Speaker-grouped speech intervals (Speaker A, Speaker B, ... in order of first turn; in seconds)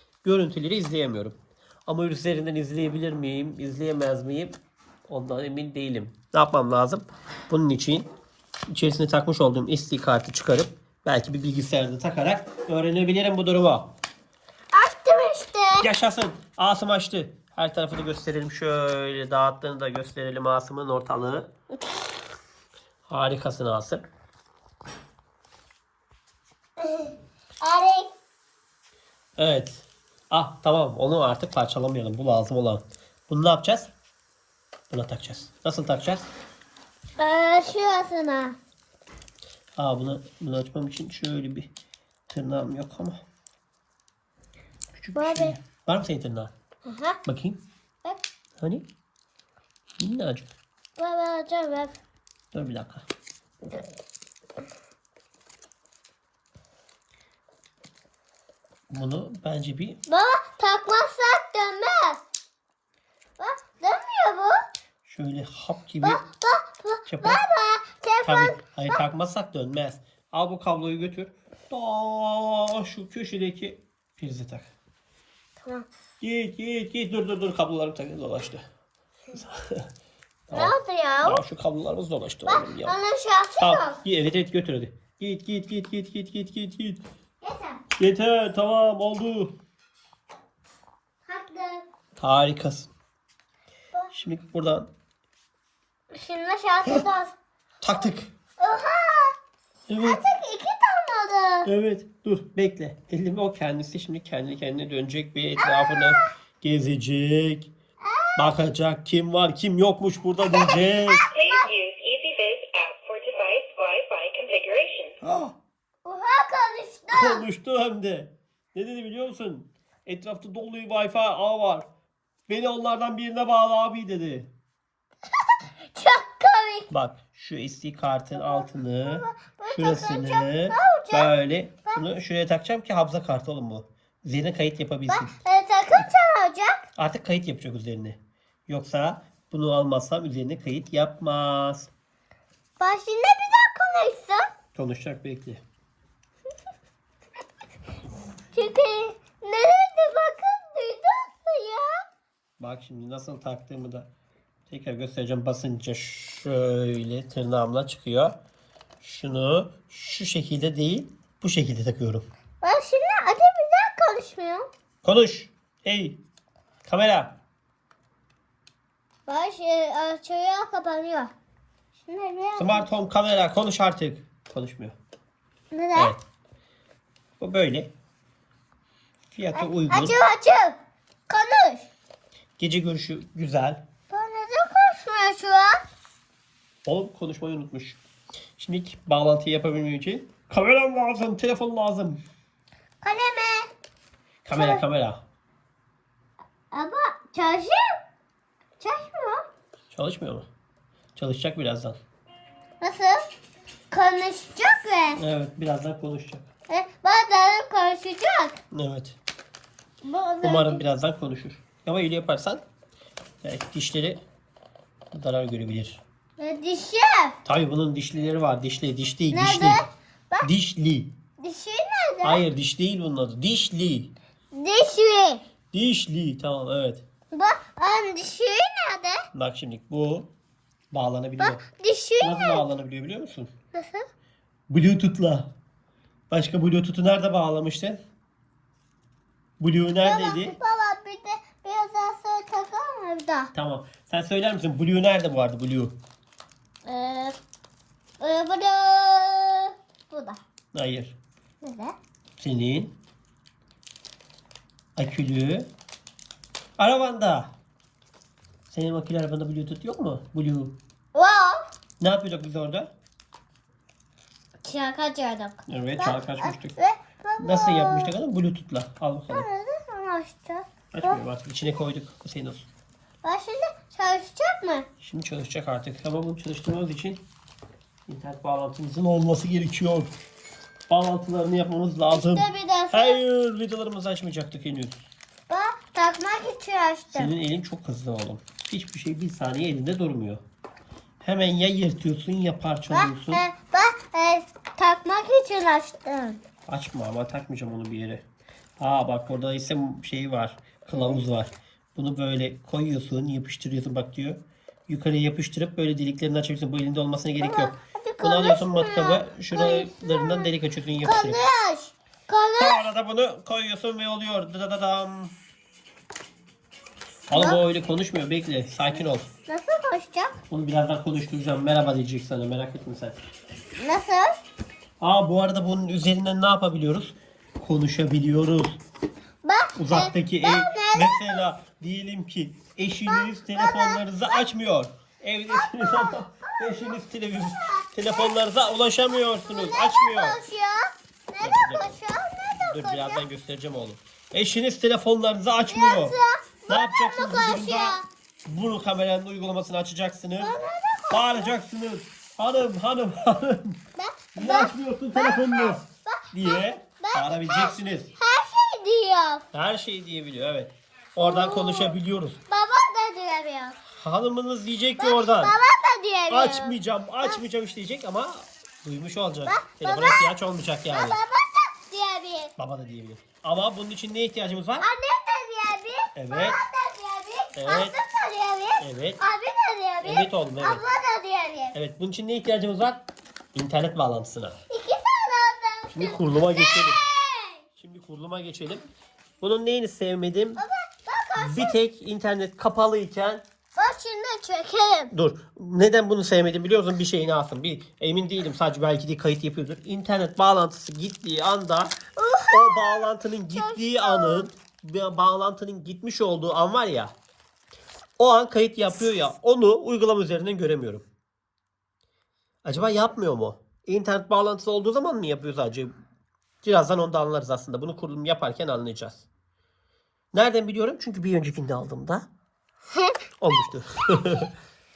Speaker A: 0.2-8.1, 8.7-13.9, 15.8-21.5, 23.0-24.0, 29.4-33.9, 34.9-36.3, 39.8-41.7, 42.3-43.2, 44.9-46.5, 47.2-47.6, 48.6-48.8, 50.0-50.5, 52.5-53.0, 58.9-60.0, 65.0-66.2, 67.0-67.4, 68.2-74.7, 76.2-78.6, 79.3-79.9, 80.5-83.0, 83.6-87.0, 88.0-89.5, 92.2-92.9, 94.1-94.9, 97.8-98.3, 99.9-100.2, 101.6-107.7, 108.3-111.3, 115.2-115.5, 117.1-121.8, 122.5-124.5, 126.9-135.4, 136.9-141.9, 144.7-145.6, 152.6-154.1, 154.7-158.3, 159.0-162.3, 165.0-166.2, 166.8-167.4, 172.6-174.9, 175.9-176.2, 177.4-177.9, 179.3-180.2, 182.6-183.8, 186.8-188.0, 188.6-192.2, 194.4-195.2, 199.9-200.5, 201.1-202.0, 205.2-206.5, 208.7-209.2, 210.4-212.6, 213.4-214.2, 215.1-216.0, 217.4-219.8, 220.4-221.1, 222.2-224.1, 225.7-227.0, 229.3-230.3, 230.9-231.6, 232.2-233.5, 234.7-235.5, 236.3-238.0, 239.6-240.6, 243.5-245.9, 250.7-251.2, 252.4-252.9, 254.9-255.7, 256.8-257.5, 258.7-260.8, 262.0-262.9, 265.7-266.7, 267.4-269.5, 270.9-272.7, 275.0-277.2, 278.1-280.1, 280.9-285.0, 287.1-290.4, 291.2-293.4, 296.6-298.2, 298.8-311.4, 312.6-315.3, 317.3-319.3, 320.5-323.2, 325.0-328.8, 329.8-340.4, 341.4-342.0, 342.6-346.1, 346.7-350.6, 351.1-353.8, 354.3-355.8, 356.3-358.1, 359.5-362.4, 363.9-365.6, 366.3-371.2, 372.6-374.9, 376.1-376.6, 377.5-377.9, 378.8-379.2, 380.0-380.8, 381.7-384.6, 385.9-387.0, 387.7-388.8, 389.4-390.6, 391.4-393.4, 395.1-407.1, 408.2-411.1, 412.6-415.9, 416.6-419.2, 420.3-422.2, 423.4-424.5
Speaker B: 14.7-15.9, 26.8-28.1, 37.2-38.5, 45.1-45.5, 46.8-47.2, 51.0-52.0, 60.1-62.2, 63.4-64.6, 66.0-69.0, 75.6-75.8, 80.5-81.4, 82.5-84.0, 87.4-87.8, 91.2-91.8, 96.1-97.3, 98.6-99.3, 100.0-101.7, 105.6-106.2, 108.0-108.4, 110.5-111.7, 116.0-117.4, 125.9-126.9, 128.3-131.3, 135.1-136.8, 142.8-144.6, 148.5-152.0, 162.6-164.7, 169.3-171.3, 172.0-172.9, 175.7-176.1, 179.5-180.8, 181.3-181.9, 184.1-185.8, 193.0-193.7, 194.5-194.8, 196.7-197.9, 198.8-199.4, 202.8-203.2, 203.9-205.2, 206.7-208.6, 210.0-210.8, 216.4-217.4, 219.3-220.5, 221.4-222.4, 224.5-225.4, 227.3-229.2, 231.4-232.6, 233.7-234.1, 240.0-243.5, 246.8-247.4, 248.2-250.4, 251.6-251.9, 261.1-261.7, 264.6-268.1, 269.3-271.2, 273.2-274.9, 282.1-283.2, 285.5-287.3, 292.9-296.4, 307.4-310.5, 311.0-312.9, 317.3-317.6, 319.3-320.4, 323.8-324.4, 329.4-331.4, 333.1-334.4, 335.5-337.0, 337.7-338.3, 339.4-343.2, 345.7-348.0, 350.4-351.5, 353.9-359.4, 361.2-363.8, 365.0-367.4, 369.4-370.2, 370.9-372.5, 374.8-381.7, 384.7-387.6, 390.6-391.8, 393.8-395.1, 402.1-404.4, 422.9-423.2
Speaker C: 111.3-115.2